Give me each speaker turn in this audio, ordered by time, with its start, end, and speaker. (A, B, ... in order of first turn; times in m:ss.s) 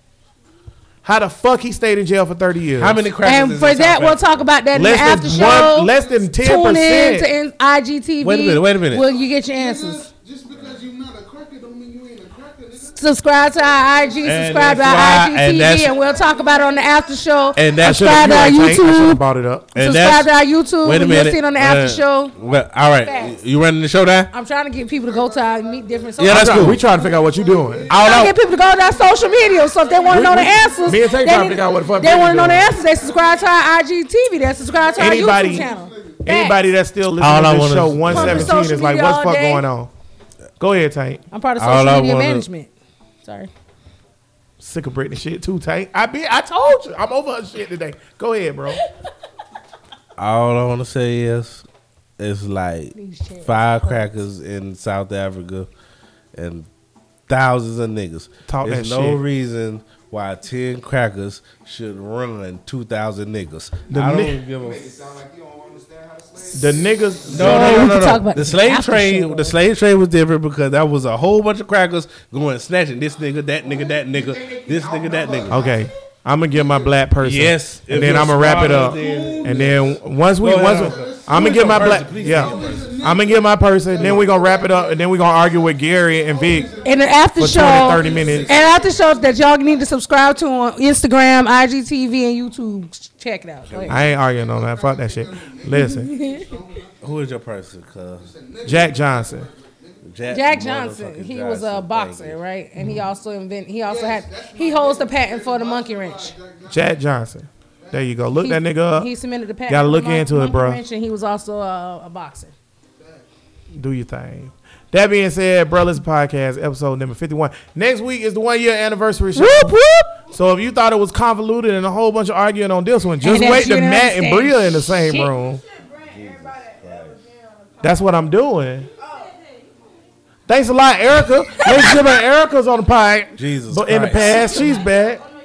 0:01.0-0:03.0 A
0:02.8-0:04.2 B
0:03.2-0:10.1 C
0:04.7-0:07.3 A
0:08.2-0:09.0 B
0:09.0-0:17.1 D
0:12.9-0:19.2 C
0:14.2-0:15.9 B
0:17.5-0:18.5 B
0:17.8-0:19.7 A
0:19.7-0:20.3 B
0:19.8-0:22.3 C
0:20.8-0:24.3 B
0:23.0-0:23.4 C
0:24.3-0:26.7 C
0:24.8-0:33.6 D
0:26.2-0:26.8 B
0:26.2-0:28.3 A
0:27.9-0:36.6 C
0:30.1-0:32.7 A
0:34.5-0:36.2 D
0:35.0-0:35.7 A
0:36.2-0:39.9 A
0:37.2-0:38.6 B
0:38.1-0:39.6 C
0:40.6-0:41.2 A
0:41.3-0:42.7 C
0:41.6-0:42.4 B
0:43.2-0:43.5 C
0:44.6-0:48.8 A
0:50.2-0:51.6 B
0:52.2-0:55.7 B
0:52.9-0:54.0 C
0:56.3-0:56.7 B
0:57.3-1:04.9 B
0:58.5-0:59.2 A
1:03.9-1:04.4 A
1:04.5-1:07.4 E
1:06.5-1:08.0 A
1:07.3-1:15.7 B
1:07.3-1:09.6 C
1:13.5-1:15.9 E
1:15.5-1:26.7 A
1:17.2-1:23.0 B
1:18.1-1:20.0 D
1:20.6-1:29.9 D
1:26.8-1:34.0 C
1:27.4-1:28.5 A
1:33.7-1:34.1 B
1:33.9-1:36.1 A
1:34.0-1:37.4 D
1:35.7-1:36.5 C
1:37.0-1:38.2 B
1:38.2-1:40.4 D
1:38.6-1:39.5 A
1:40.0-1:42.4 B
1:40.3-1:46.3 C
1:42.8-1:43.0 A
1:43.8-1:47.0 D
1:46.7-1:49.1 A
1:47.8-1:48.2 D
1:48.4-1:52.5 C
1:49.7-1:50.8 A
1:53.0-1:53.3 D
1:53.7-1:59.8 A
1:59.4-2:00.1 C
2:00.3-2:05.6 A
2:03.2-2:05.3 C
2:05.9-2:07.3 B
2:07.8-2:08.9 A
2:10.5-2:15.2 A
2:13.4-2:14.7 B